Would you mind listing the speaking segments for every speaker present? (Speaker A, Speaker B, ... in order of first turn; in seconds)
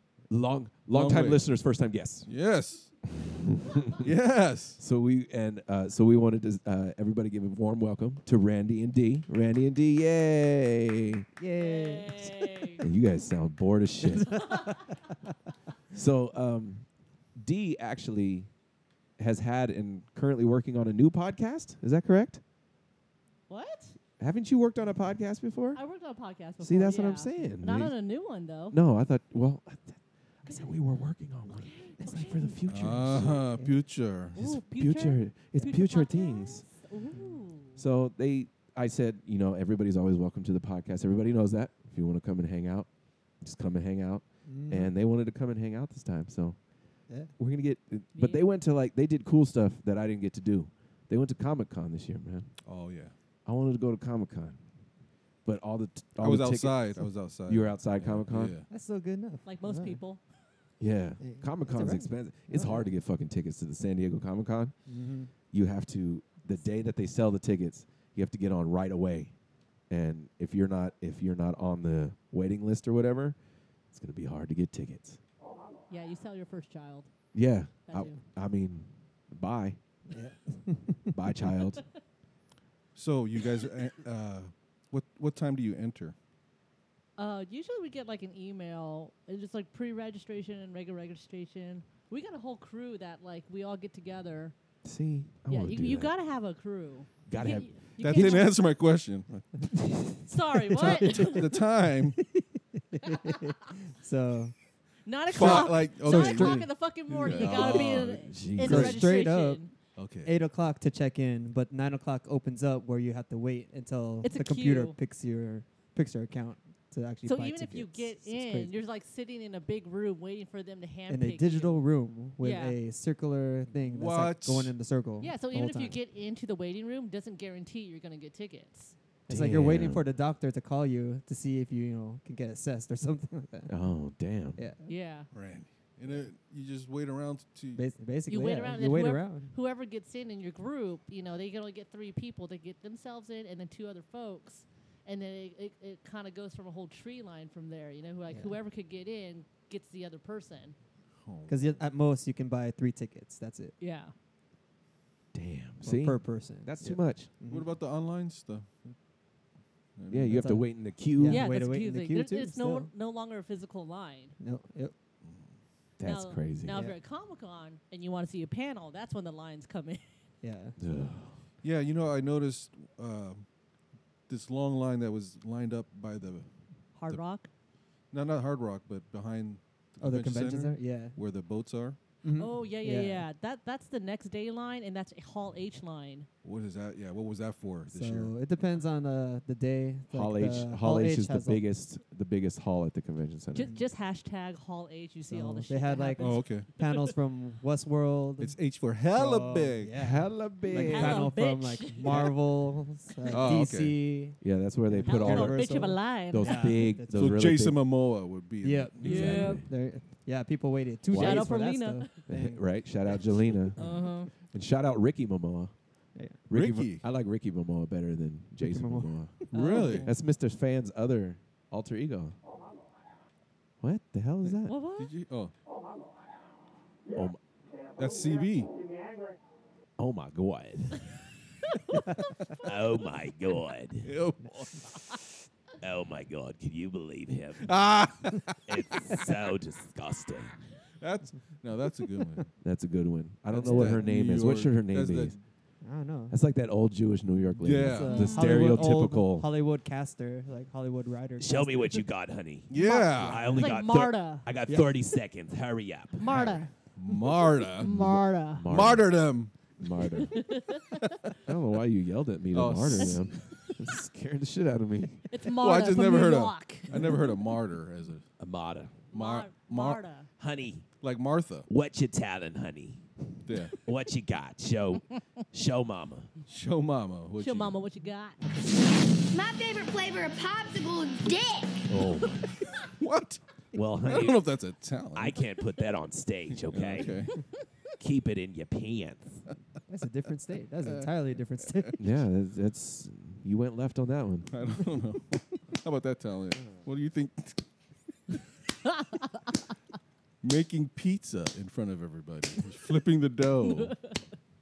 Speaker A: 0.3-2.3, 3.2-4.1, 4.8-11.2, 12.8-14.4, 15.9-16.8, 17.4-18.5, 19.2-22.4, 24.2-25.8, 26.6-27.9, 28.7-33.5, 34.3-36.6, 37.8-42.9, 43.4-46.6, 47.4-52.5, 53.4-54.6, 55.4-58.5, 60.8-64.7, 65.5-69.3, 69.9-73.4, 73.9-75.2, 77.3-79.8, 81.1-81.8, 94.8-96.1, 97.3-98.4, 107.4-109.0, 129.3-130.1, 133.7-134.6, 155.3-157.3, 160.1-161.5, 166.0-166.8, 170.8-171.3, 190.1-193.7, 200.0-201.3, 204.4-207.8, 209.0-209.7, 211.1-211.5, 212.3-213.8, 214.5-215.7, 216.5-219.4, 220.0-222.4, 223.8-224.7, 227.1-227.4, 230.0-231.0, 232.6-234.1, 235.8-237.7, 238.7-240.6, 242.6-245.3, 246.3-249.5, 251.4-256.2, 257.9-259.2, 259.8-260.4, 261.4-265.2, 268.4-269.0, 270.4-270.9, 271.7-273.0, 273.8-276.3, 281.9-282.6, 283.7-284.4, 285.1-287.2, 288.0-289.4, 292.0-294.5
Speaker B: 0.9-1.5, 2.2-2.9, 4.0-4.8, 32.7-34.4, 52.6-53.1, 56.2-58.7, 82.9-86.1, 98.0-99.6, 100.9-102.2, 105.3-108.8, 110.0-110.4, 123.9-124.8, 135.3-137.8, 151.2-151.8, 157.5-158.7, 160.0-160.5, 165.2-165.5, 171.6-173.4, 174.3-176.5, 178.1-182.0, 186.4-188.3, 196.2-196.7, 198.4-200.0, 202.0-202.4, 203.3-204.0, 207.1-209.5, 216.5-217.0, 219.5-220.1, 225.0-225.5, 228.0-228.7, 234.0-235.1, 237.6-238.6, 241.0-242.5, 243.5-245.4, 247.6-248.4, 252.7-253.6, 256.9-258.1, 258.6-259.5, 262.5-263.3, 265.5-268.2, 269.1-270.0, 271.0-271.7, 273.4-273.8, 276.5-277.8, 283.0-283.4, 284.0-285.4, 286.5-287.4, 290.8-291.1, 294.5-297.6, 300.4-304.0
Speaker C: 11.4-12.6, 14.1-14.8, 32.0-32.3, 44.5-44.9, 58.7-60.0, 61.2-62.9, 64.9-65.3, 80.1-81.1, 99.6-101.5, 102.2-104.5, 105.3-106.7, 108.6-109.6, 110.2-118.8, 121.1-126.0, 129.3-133.7, 134.6-134.9, 137.7-139.5, 148.3-148.6, 151.5-153.8, 155.8-157.7, 160.3-162.9, 164.4-164.9, 166.7-167.0, 170.4-170.8, 180.0-181.2, 182.2-183.3, 187.9-191.6, 193.6-193.8, 195.3-198.6, 199.1-204.4, 204.9-207.4, 208.6-212.6, 218.6-219.1, 243.5-244.1, 245.8-246.3, 247.8-252.0, 254.7-254.9, 289.9-292.0
Speaker D: 11.6-12.8, 14.4-14.7, 23.5-24.0, 25.7-28.8, 31.5-32.5, 34.4-37.8, 48.1-48.4, 59.4-60.2, 75.9-77.1, 77.9-78.2, 87.2-94.5, 95.5-98.5, 100.3-101.4, 105.0-109.7, 114.2-114.9, 117.2-121.8, 122.4-122.8, 125.2-128.9, 134.8-135.3, 138.3-150.8, 153.8-154.1, 161.3-164.3, 166.0-170.1, 176.9-177.5, 182.4-186.3, 193.5-197.0, 200.9-202.3, 205.0-206.8, 209.0-209.6, 211.1-212.1, 213.8-214.3, 219.5-220.1, 224.7-225.1, 248.1-248.9, 252.8-254.5, 256.2-256.7, 257.8-258.7, 260.4-260.9, 265.3-267.4, 269.1-270.3, 277.4-278.5, 303.7-304.1
Speaker E: 279.3-281.8